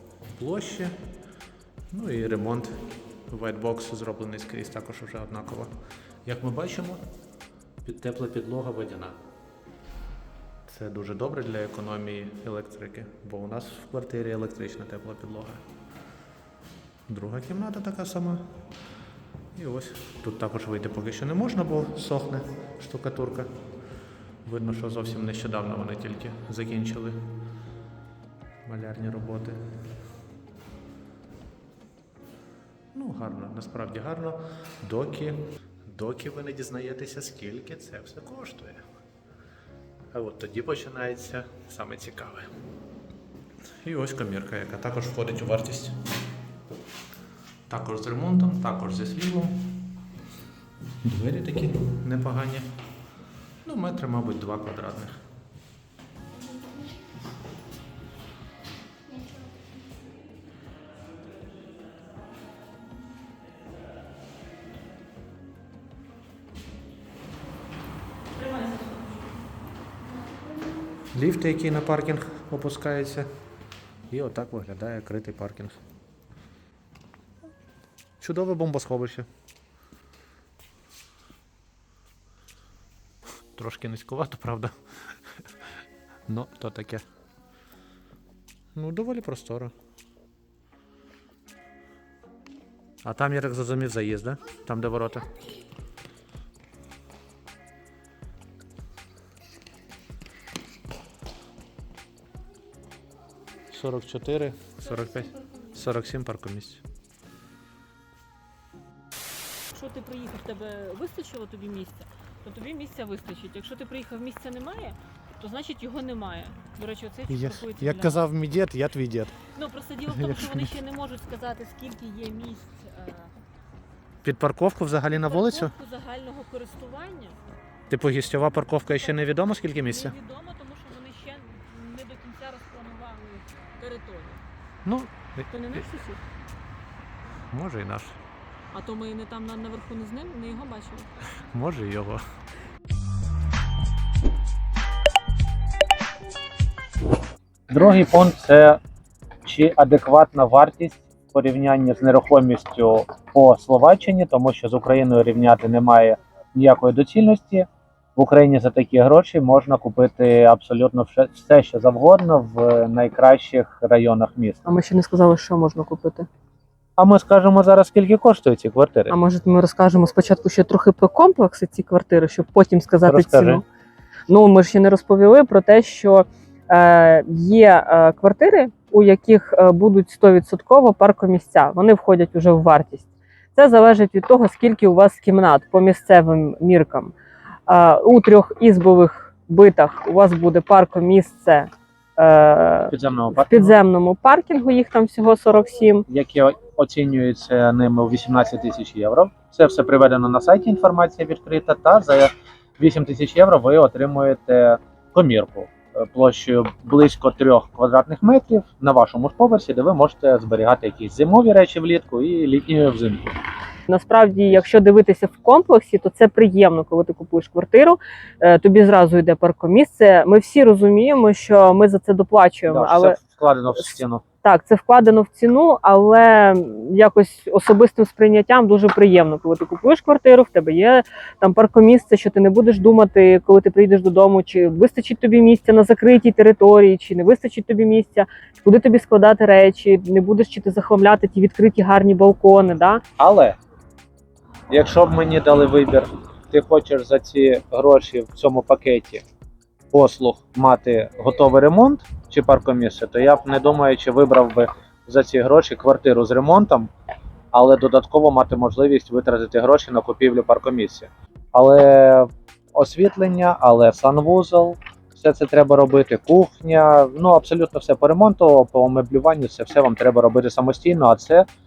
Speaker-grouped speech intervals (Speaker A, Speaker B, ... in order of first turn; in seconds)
Speaker A: 0.4-0.9, 1.9-5.7, 6.2-7.0, 7.8-9.2, 10.7-15.6, 17.1-18.4, 19.6-23.5, 24.4-27.2, 28.6-29.6, 32.9-38.8, 40.1-42.5, 43.8-46.0, 47.7-49.9, 51.0-52.7, 53.6-55.2, 71.1-73.3, 74.1-75.8, 78.2-79.3, 83.5-85.2, 86.3-87.0, 88.8-89.7, 93.0-95.4, 103.7-106.8, 117.3-119.4, 120.1-120.7, 124.2-125.7, 127.9-130.2, 134.8-135.8, 137.5-138.2, 141.5-142.2
Speaker B: 68.4-69.2, 105.0-105.5, 109.7-118.2, 119.5-123.3, 125.2-127.4, 129.1-134.4, 135.5-136.2, 138.7-141.1, 164.7-166.3, 169.1-173.6, 174.3-187.1, 187.7-196.1, 213.9-223.2, 224.4-243.0
Speaker C: 147.7-148.8, 149.4-164.7, 167.0-169.2, 173.1-173.6, 192.9-193.8, 196.1-213.3, 222.7-224.2, 243.2-243.6, 244.7-249.2, 249.9-256.9, 257.5-271.5